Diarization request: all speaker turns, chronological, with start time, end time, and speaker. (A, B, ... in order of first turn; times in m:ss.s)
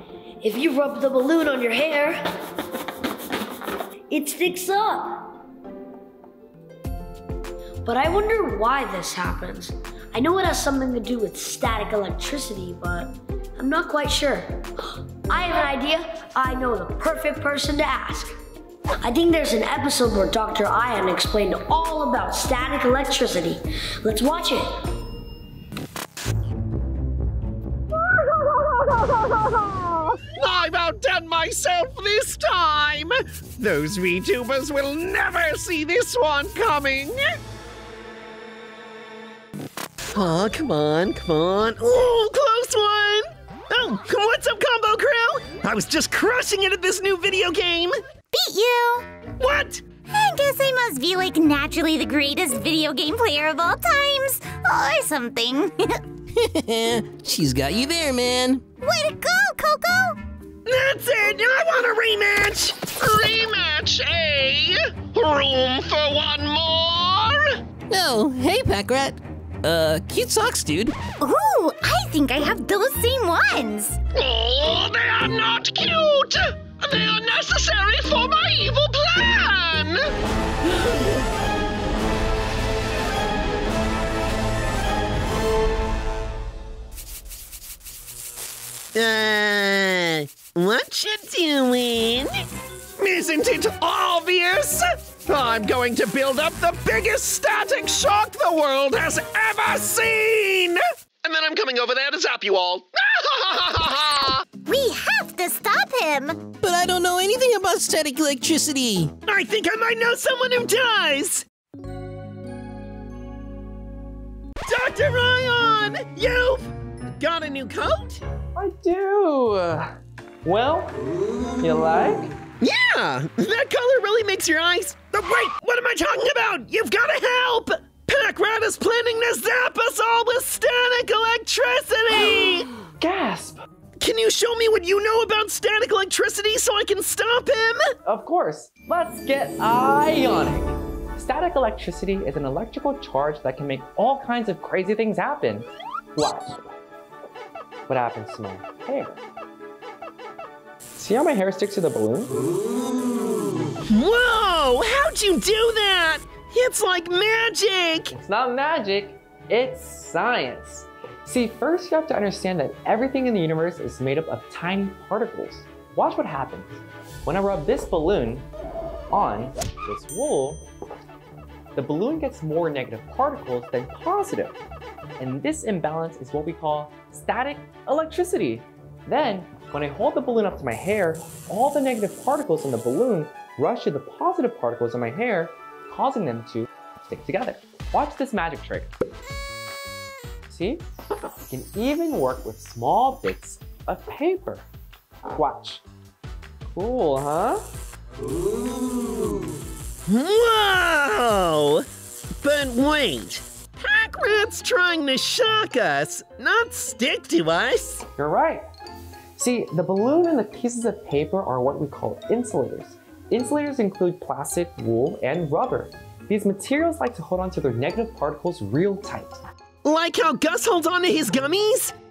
0:00.4-0:02.2 A
0:04.1-0:05.2 A
0:07.8-0:14.7 A
0:15.3-0:18.3 A
0:19.0-0:24.7 A
0:28.3-0:37.2 B
0:40.1-0:48.0 B
0:48.3-0:49.1 C
0:49.4-0:49.8 B
0:50.1-0:56.0 C
0:56.3-0:58.6 D
0:58.8-1:00.2 C
1:00.6-1:07.5 B
1:07.9-1:11.0 D
1:11.2-1:14.0 C
1:14.1-1:20.0 B
1:28.9-1:32.3 B
1:33.0-1:44.4 B
1:44.6-1:46.4 C
1:46.6-1:49.1 D
1:49.2-1:51.4 B
1:54.7-1:58.2 B
1:58.6-1:59.9 E
2:00.4-2:01.0 E
2:01.6-2:02.3 E
2:02.6-2:12.7 B
2:13.0-2:13.6 E
2:14.0-2:17.8 B
2:18.0-2:26.7 E
2:27.9-2:29.2 E
2:31.0-2:32.4 E
2:33.9-2:38.1 B
2:38.1-2:48.5 E
2:49.1-2:50.6 E
2:51.7-2:54.6 E
2:55.2-3:08.9 E
3:10.5-3:10.9 E
3:11.5-3:14.6 E
3:15.3-3:15.8 E
3:16.7-3:17.6 E
3:20.1-3:21.8 B
3:22.4-3:28.0 B
3:28.2-3:28.6 E
3:29.4-3:39.4 E
3:39.8-3:41.9 B